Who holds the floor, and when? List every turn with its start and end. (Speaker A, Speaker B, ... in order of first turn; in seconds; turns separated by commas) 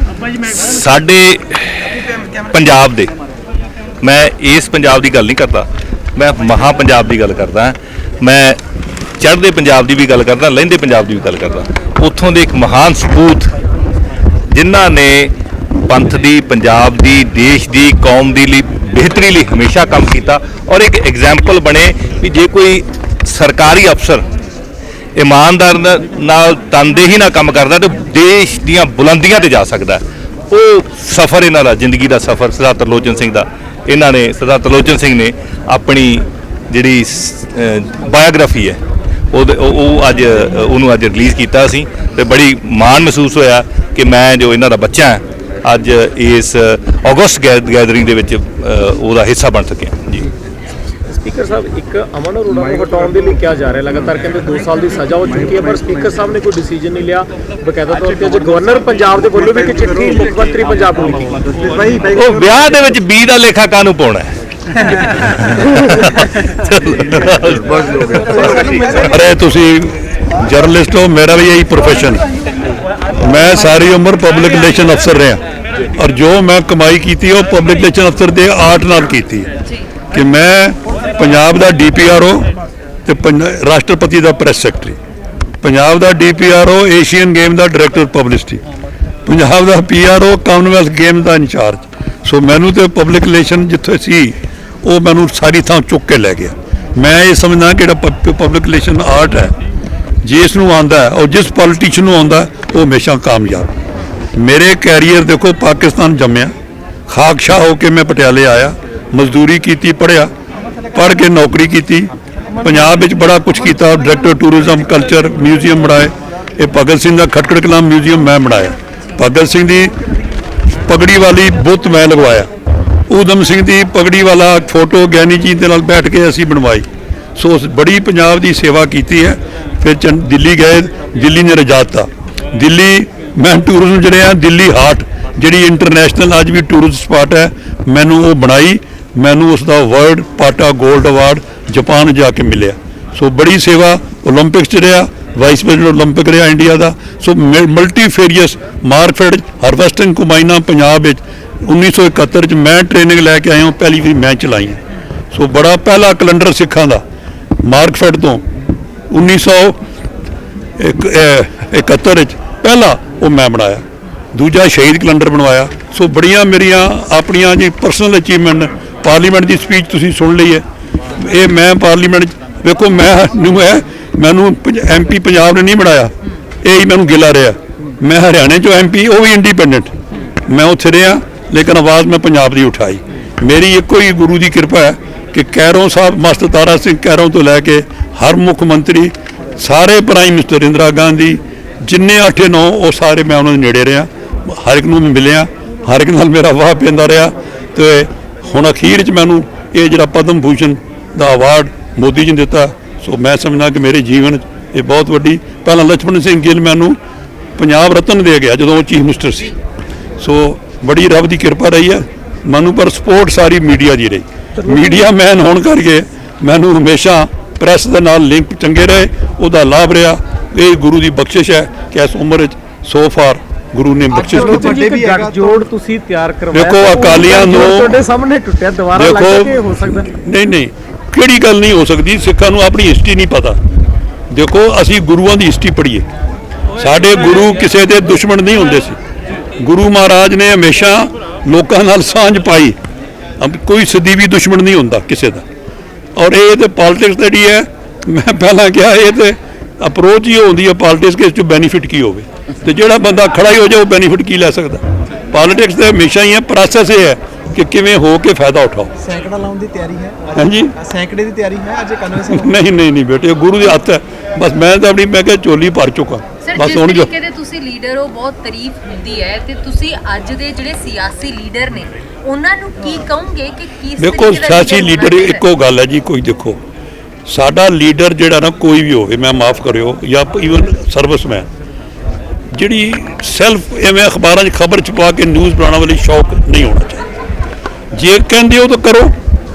Speaker A: 0.5-3.1, Speaker A: 4.0-8.6, Speaker A: 9.2-13.5, Speaker A: 14.5-15.3, Speaker A: 15.9-24.2, Speaker A: 25.1-38.8, Speaker A: 39.3-50.3, Speaker B: 51.1-61.5, Speaker C: 61.6-62.5, Speaker A: 62.1-68.8, Speaker C: 68.3-69.0, Speaker D: 69.0-72.2, Speaker D: 73.2-75.4, Speaker D: 75.9-79.5, Speaker D: 80.1-82.5, Speaker D: 83.0-85.0, Speaker D: 85.6-88.6, Speaker D: 89.2-99.5, Speaker D: 100.2-103.7, Speaker D: 104.3-106.5, Speaker D: 107.1-110.3, Speaker D: 110.9-112.1, Speaker D: 112.6-119.9, Speaker D: 120.8-122.5, Speaker D: 123.1-126.8, Speaker D: 127.4-154.8, Speaker D: 155.3-157.0, Speaker D: 157.6-158.4, Speaker D: 159.1-159.8, Speaker D: 160.8-176.1, Speaker D: 176.6-179.9, Speaker D: 180.4-207.0, Speaker D: 207.6-209.5, Speaker D: 210.2-224.8, Speaker B: 214.6-215.0, Speaker C: 224.1-225.6, Speaker B: 224.3-230.1, Speaker D: 226.5-228.0, Speaker D: 228.9-233.6, Speaker D: 234.3-236.1, Speaker D: 236.8-239.0, Speaker D: 239.6-242.8, Speaker D: 243.4-245.4, Speaker D: 246.2-258.9, Speaker C: 259.0-262.5, Speaker D: 260.3-260.7, Speaker D: 262.3-267.1, Speaker E: 266.4-275.4, Speaker D: 274.0-276.6, Speaker D: 277.3-281.5, Speaker D: 282.5-287.0, Speaker D: 287.9-289.1